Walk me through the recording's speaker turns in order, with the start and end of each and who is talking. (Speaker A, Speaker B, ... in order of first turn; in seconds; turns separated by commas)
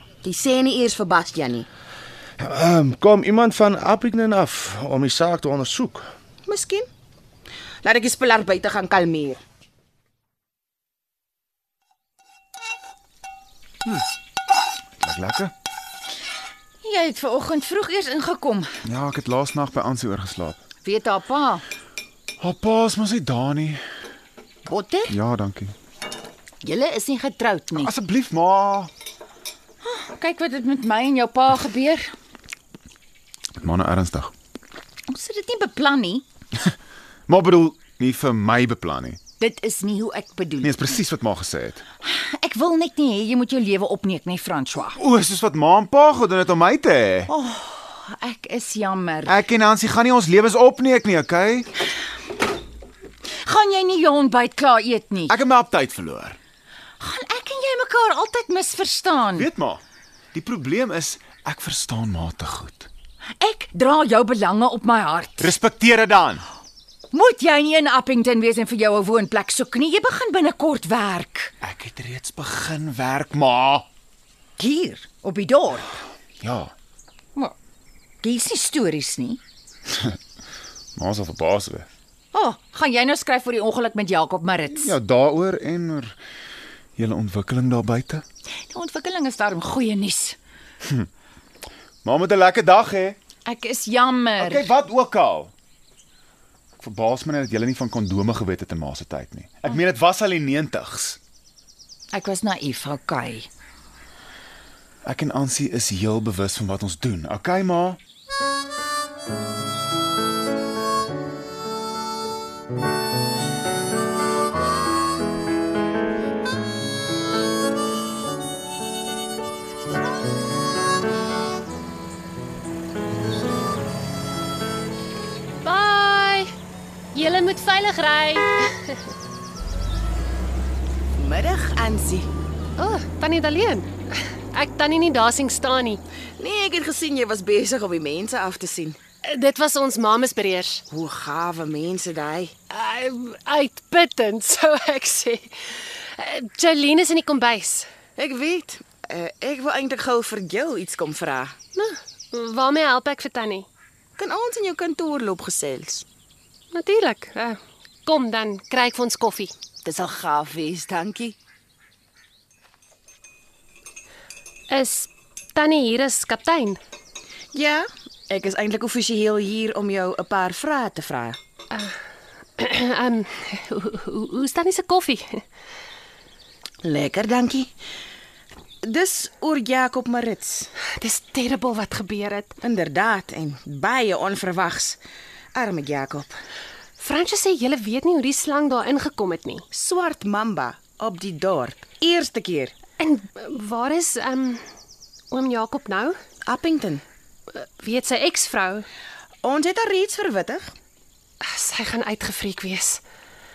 Speaker A: 0.2-1.7, Speaker B: 2.4-6.1, Speaker A: 6.5-6.9, Speaker A: 7.8-9.4, Speaker C: 15.0-15.5, Speaker D: 16.8-18.7, Speaker C: 18.9-20.6, Speaker D: 20.8-21.6, Speaker C: 22.4-23.8, Speaker D: 24.7-25.2, Speaker C: 25.1-25.7, Speaker D: 26.6-27.9, Speaker C: 27.8-28.9, Speaker D: 29.8-32.1, Speaker C: 33.6-34.3, Speaker D: 35.1-36.2, Speaker C: 37.3-39.2, Speaker D: 39.4-41.0, Speaker C: 40.6-41.8, Speaker D: 42.0-45.0, Speaker C: 45.0-47.3, Speaker D: 47.3-49.4, Speaker C: 49.3-51.7, Speaker D: 53.4-55.4, Speaker C: 55.3-56.4, Speaker D: 57.0-59.5, Speaker C: 59.4-59.8, Speaker C: 60.3-62.9, Speaker D: 63.4-65.5, Speaker C: 65.4-66.5, Speaker D: 67.1-71.5, Speaker C: 71.6-73.9, Speaker D: 74.6-76.0, Speaker C: 76.4-76.7, Speaker D: 78.2-79.4, Speaker C: 81.0-81.9, Speaker D: 82.3-85.0, Speaker C: 84.8-86.2, Speaker C: 87.0-88.2, Speaker D: 88.6-90.4, Speaker C: 92.0-93.2, Speaker D: 93.5-94.7, Speaker C: 94.4-95.5, Speaker C: 96.8-101.2, Speaker D: 102.1-103.5, Speaker C: 105.0-108.0, Speaker E: 125.6-126.5, Speaker E: 127.1-129.0, Speaker A: 131.2-132.3, Speaker E: 132.8-136.0, Speaker A: 136.4-139.0, Speaker E: 139.2-140.8, Speaker A: 140.9-142.5, Speaker E: 142.7-147.9, Speaker A: 148.2-151.6, Speaker E: 151.8-153.7, Speaker A: 154.2-156.1, Speaker E: 156.7-159.5, Speaker A: 159.8-161.4, Speaker E: 164.7-166.8, Speaker A: 167.5-171.4, Speaker E: 172.6-175.4, Speaker A: 176.8-177.7, Speaker A: 178.8-180.7, Speaker E: 181.0-182.6, Speaker A: 182.6-185.0, Speaker A: 185.6-186.3, Speaker E: 187.0-189.7, Speaker A: 189.7-192.7, Speaker E: 193.0-194.7, Speaker E: 195.3-196.2, Speaker A: 196.5-197.0, Speaker E: 197.6-198.9, Speaker A: 199.4-200.7, Speaker E: 201.4-203.0